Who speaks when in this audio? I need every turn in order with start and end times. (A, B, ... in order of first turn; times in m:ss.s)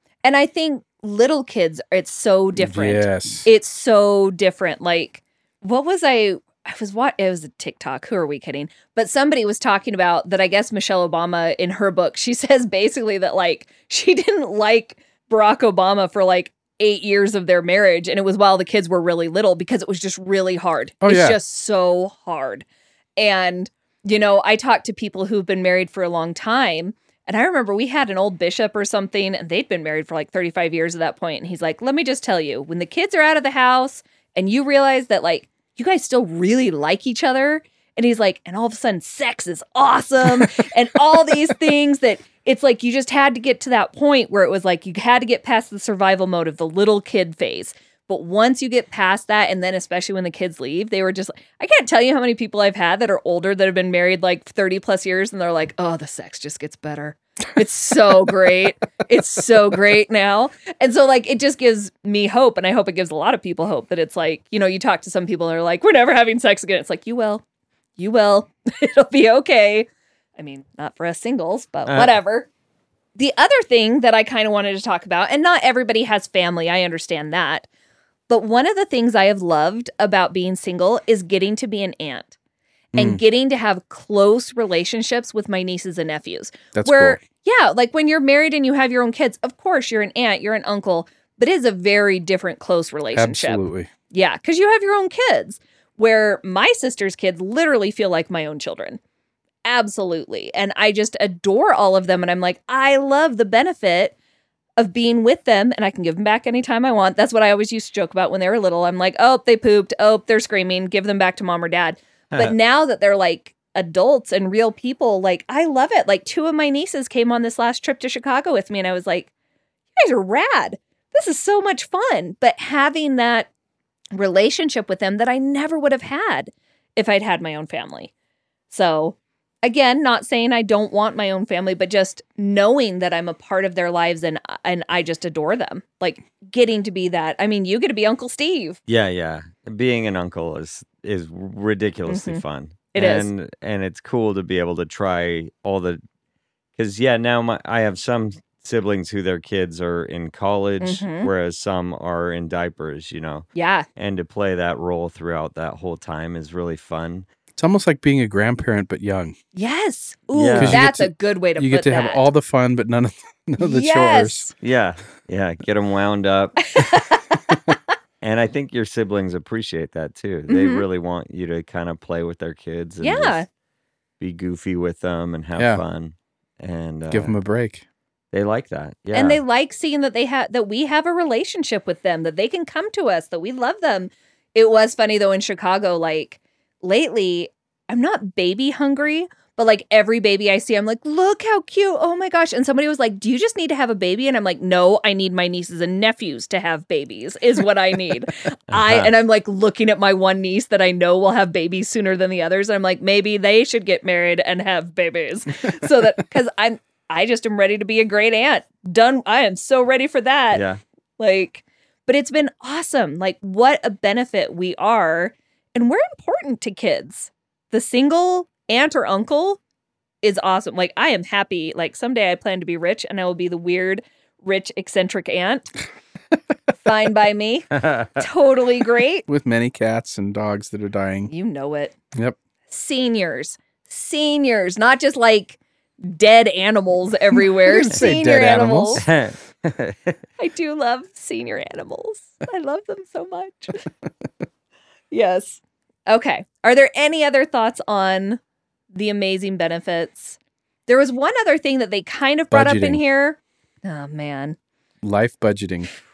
0:00.2-0:22.6 A
0:02.6-0:03.5 B
0:21.0-0:21.4 B
0:23.2-1:07.4 A
1:08.0-1:12.5 A
1:11.9-1:12.1 C
1:13.2-1:17.7 A
1:18.3-1:22.3 A
1:23.0-1:23.2 B
1:23.0-1:39.0 A
1:26.7-1:27.2 B
1:33.1-1:33.9 B
1:39.6-1:44.2 A
1:44.8-1:59.3 A
1:52.3-1:52.6 C
2:00.0-2:03.5 A
2:04.1-2:08.1 A
2:08.7-2:18.8 A
2:18.9-2:26.0 C
2:22.1-2:22.4 A
2:22.9-2:23.3 A
2:26.8-2:37.3 C
2:30.8-2:31.3 A
2:33.6-2:33.9 A
2:37.6-2:39.4 B
2:39.6-2:42.3 A
2:40.3-2:40.8 C
2:40.6-2:44.5 B
2:43.6-2:44.5 A
2:44.6-2:46.6 C
2:46.7-2:47.4 A
2:48.2-2:53.4 C
2:50.5-2:50.8 A
2:53.0-2:53.5 A
2:54.2-2:57.3 C
2:55.6-2:55.8 B
2:57.1-2:57.8 B
2:58.3-2:59.4 C
2:59.1-3:30.6 A
3:18.7-3:19.1 C
3:30.5-3:30.8 C
3:31.2-3:39.6 A
3:40.2-3:45.7 A
3:46.8-3:49.3 A
3:47.8-3:48.2 C
3:49.3-3:51.3 B
3:51.3-3:52.0 A
3:52.7-3:59.0 A
3:57.4-3:59.0 B
3:59.0-4:00.2 C
4:00.4-4:03.8 A
4:05.1-4:08.4 A
4:08.9-4:14.6 A
4:12.5-4:13.0 B
4:15.0-4:15.9 B